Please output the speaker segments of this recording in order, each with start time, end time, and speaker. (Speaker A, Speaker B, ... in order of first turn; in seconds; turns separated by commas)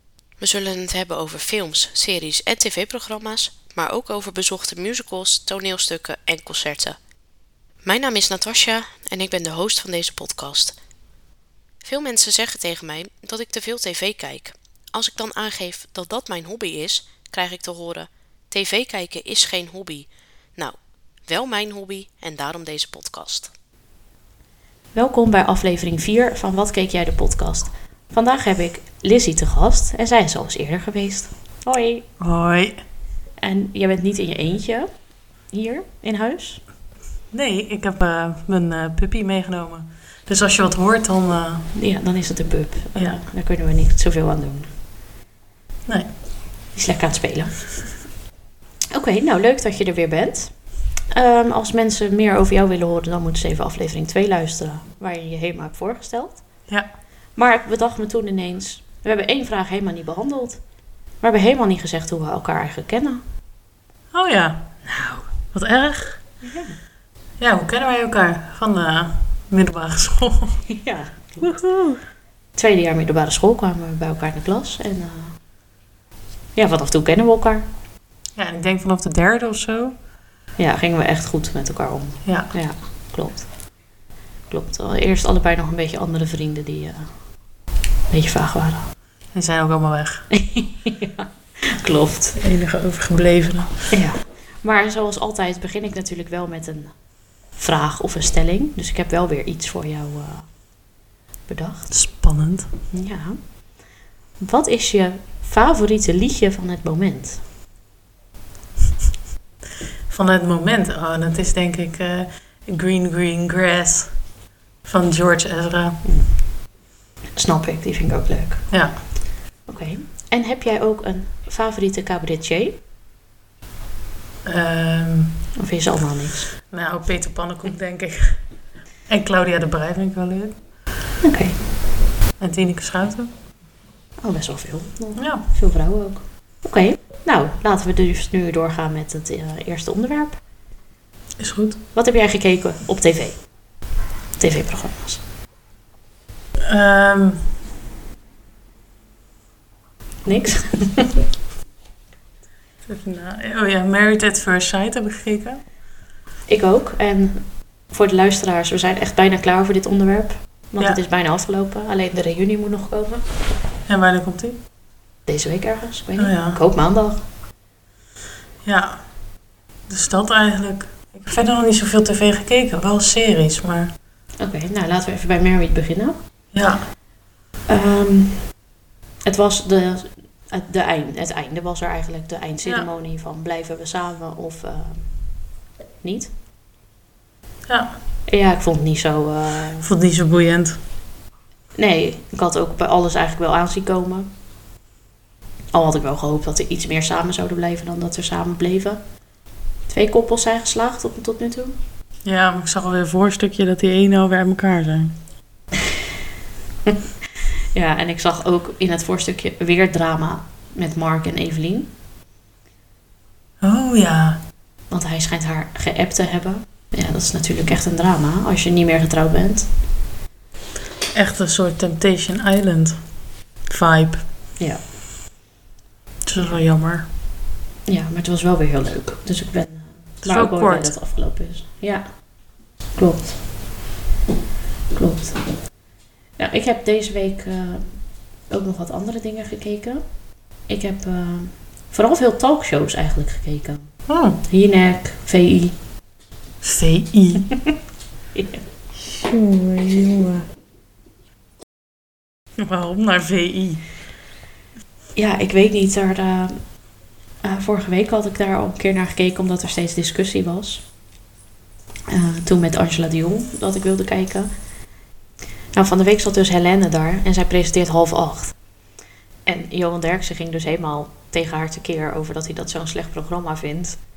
Speaker A: 0.4-7.0, Speaker A: 7.8-10.8, Speaker A: 11.8-23.5, Speaker A: 24.9-32.1, Speaker B: 32.2-32.8, Speaker A: 33.4-34.9, Speaker A: 35.5-36.6, Speaker B: 37.3-41.7, Speaker A: 41.7-44.7, Speaker A: 46.8-47.6, Speaker A: 48.9-50.5, Speaker A: 51.1-56.4, Speaker A: 57.4-60.6, Speaker A: 61.2-63.2, Speaker B: 64.1-66.2, Speaker A: 66.4-66.8, Speaker B: 67.4-70.7, Speaker A: 70.7-71.6, Speaker B: 71.4-72.0, Speaker A: 72.5-75.4, Speaker A: 76.6-77.7, Speaker B: 78.4-80.0, Speaker A: 80.6-83.5, Speaker B: 82.2-82.5, Speaker A: 84.5-87.1, Speaker A: 88.1-88.9, Speaker B: 89.3-90.3, Speaker A: 90.3-92.4, Speaker B: 92.4-93.9, Speaker A: 93.9-96.9, Speaker A: 97.6-100.5, Speaker A: 101.5-101.9, Speaker B: 101.9-102.7, Speaker A: 102.9-103.4, Speaker A: 104.4-107.4, Speaker B: 110.1-114.2, Speaker B: 114.8-116.0, Speaker A: 116.0-116.3, Speaker A: 117.4-118.7, Speaker A: 119.7-122.8, Speaker B: 124.5-125.4, Speaker A: 125.6-126.5, Speaker B: 126.7-128.4, Speaker B: 129.1-130.6, Speaker A: 131.2-131.6, Speaker B: 132.4-133.3, Speaker A: 134.2-140.4, Speaker B: 135.2-135.5, Speaker B: 141.4-141.8, Speaker A: 141.9-143.4, Speaker A: 144.4-145.2, Speaker B: 146.6-147.5, Speaker A: 150.2-151.2, Speaker B: 152.9-155.6, Speaker A: 156.5-163.2, Speaker B: 163.9-164.6, Speaker A: 165.3-167.2, Speaker B: 166.2-166.6, Speaker B: 168.6-169.0, Speaker B: 169.9-173.9, Speaker A: 174.4-176.2, Speaker B: 176.5-176.9, Speaker A: 177.7-178.4, Speaker A: 179.2-185.1, Speaker A: 186.0-186.3, Speaker B: 187.7-187.9, Speaker A: 188.3-189.9, Speaker B: 189.8-190.8, Speaker A: 191.8-194.3, Speaker A: 195.7-199.0, Speaker A: 199.9-201.8, Speaker B: 202.2-205.2, Speaker A: 207.7-211.9, Speaker B: 213.6-214.4, Speaker A: 214.9-219.7, Speaker B: 221.1-223.0, Speaker B: 223.7-224.2, Speaker B: 226.3-227.1, Speaker A: 227.9-232.0, Speaker B: 230.2-230.9, Speaker A: 233.0-233.4, Speaker A: 234.9-235.4, Speaker A: 236.4-237.9, Speaker A: 238.5-240.0, Speaker A: 240.7-243.9, Speaker B: 244.1-244.4, Speaker A: 244.5-245.8, Speaker B: 246.6-247.5, Speaker A: 248.3-248.6, Speaker B: 249.0-250.5, Speaker B: 252.6-253.8, Speaker A: 255.2-256.6, Speaker A: 257.4-260.8, Speaker A: 262.1-264.5, Speaker A: 265.7-268.6, Speaker A: 269.5-274.0